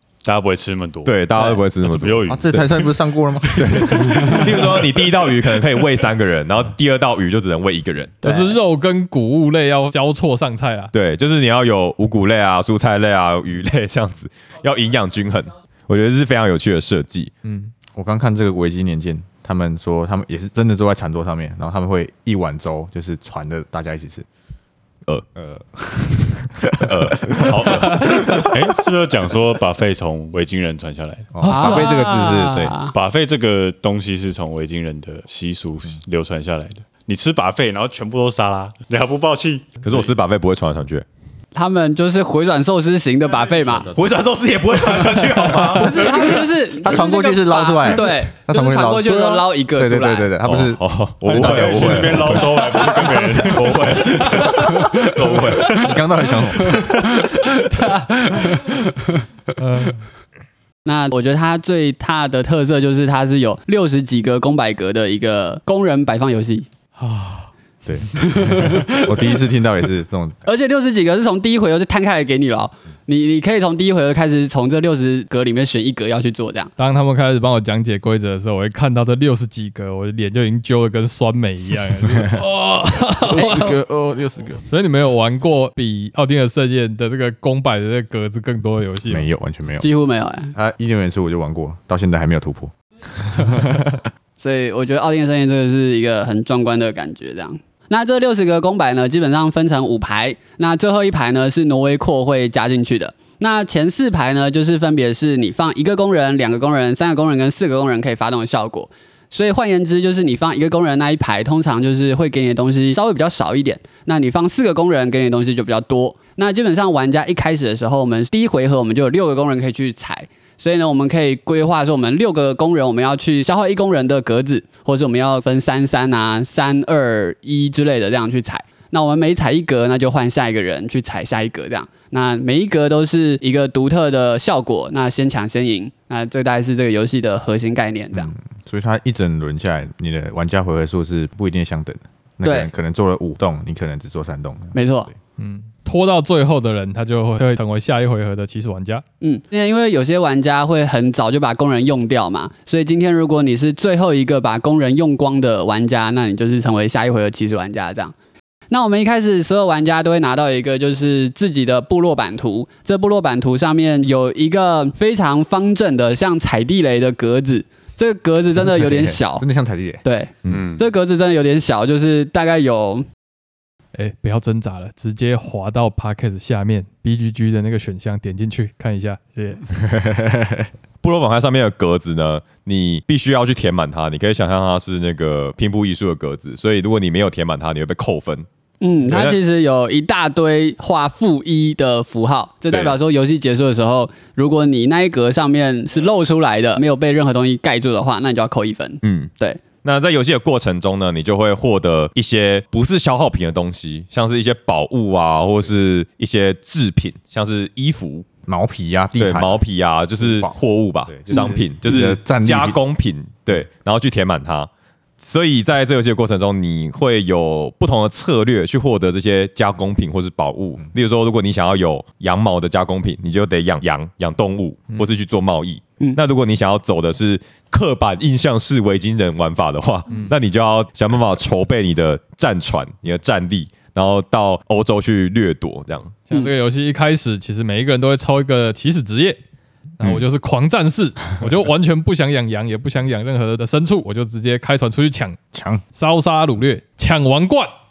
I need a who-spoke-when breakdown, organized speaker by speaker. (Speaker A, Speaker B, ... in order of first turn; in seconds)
Speaker A: 0.2-1.2, 1.8-2.6, 28.5-31.3, 32.9-40.1, 51.3-53.9, 170.5-170.8
Speaker B: 1.1-2.9, 3.5-8.2, 10.9-17.3, 26.8-28.5, 31.4-32.0, 39.8-41.0, 43.9-46.4, 50.4-55.8, 181.0-188.5, 189.1-189.4, 192.7-193.0, 199.0-199.3, 199.8-208.3, 209.2-236.1
Speaker C: 2.3-4.3, 17.9-24.3, 25.4-27.6, 31.3-32.8, 46.7-52.4, 55.7-57.3, 67.8-70.4, 82.1-82.4, 83.2-84.6, 89.1-89.9, 90.5-94.0, 138.1-144.8, 168.6-170.0, 179.8-180.7, 208.5-209.6, 210.2-210.6, 211.1-212.8, 245.5-245.8
Speaker D: 4.1-4.5, 8.2-8.6, 31.4-33.0, 41.5-43.9, 45.6-50.3, 56.8-59.2, 60.9-66.7, 68.2-69.2, 70.5-76.7, 89.8-90.5, 94.4-138.3, 142.4-142.7, 144.8-145.1, 149.2-158.1, 158.7-169.5, 170.0-173.1, 188.8-199.6
Speaker E: 8.2-10.9, 17.4-17.7, 59.6-60.1, 67.0-67.5, 76.8-83.8, 84.7-89.3, 145.4-149.0, 173.9-179.7, 236.3-239.4, 240.0-245.4, 245.9-247.7